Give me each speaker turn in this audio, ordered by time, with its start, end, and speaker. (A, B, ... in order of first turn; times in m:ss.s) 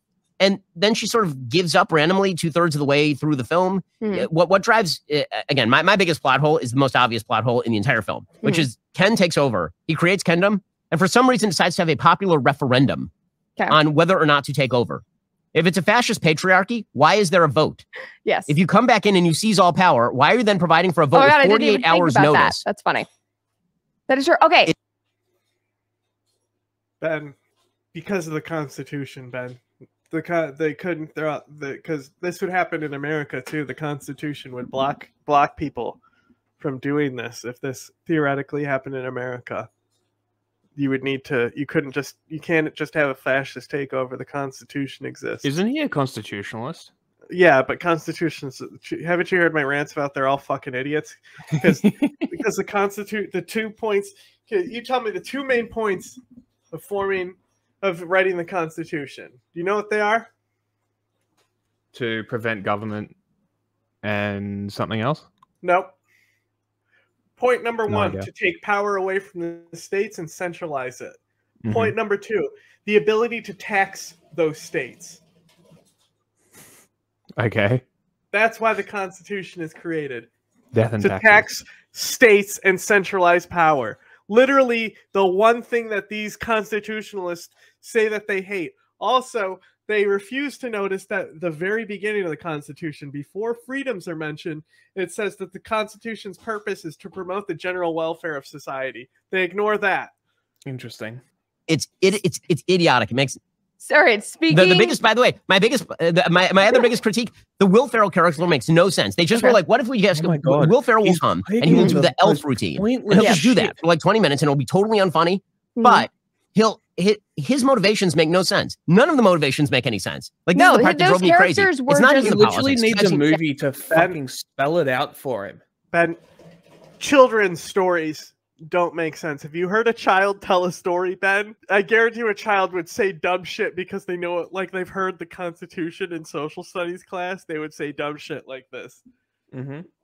0:00.4-0:13.1 A
0:04.0-0:04.3 B
0:13.7-0:15.0 A
0:15.5-0:17.8 A
0:18.2-0:18.5 B
0:18.5-0:22.6 A
0:21.1-0:23.1 B
0:24.1-0:24.7 B
0:27.0-0:27.3 C
0:27.9-0:36.0 C
0:36.6-0:39.7 C
0:40.8-0:45.5 C
0:45.4-0:46.9 D
0:47.3-0:56.2 C
0:51.8-0:52.2 D
0:56.7-1:00.3 C
1:01.9-1:03.1 D
1:04.0-1:05.2 D
1:05.6-1:05.9 C
1:07.4-1:11.2 C
1:07.9-1:08.3 D
1:11.6-1:11.9 D
1:11.7-1:15.2 C
1:17.4-1:17.8 D
1:18.3-1:20.3 C
1:20.7-1:21.4 D
1:21.0-1:40.1 C
1:40.6-1:41.2 D
1:41.7-1:43.4 A
1:43.8-1:45.0 B
1:44.5-2:03.3 A
1:50.1-1:53.7 D
1:51.7-1:52.0 B
1:55.8-1:56.1 B
2:00.5-2:02.6 B
2:02.1-2:05.6 D
2:03.9-2:04.2 C
2:05.9-2:06.2 C
2:07.0-2:19.0 C
2:19.5-2:19.9 D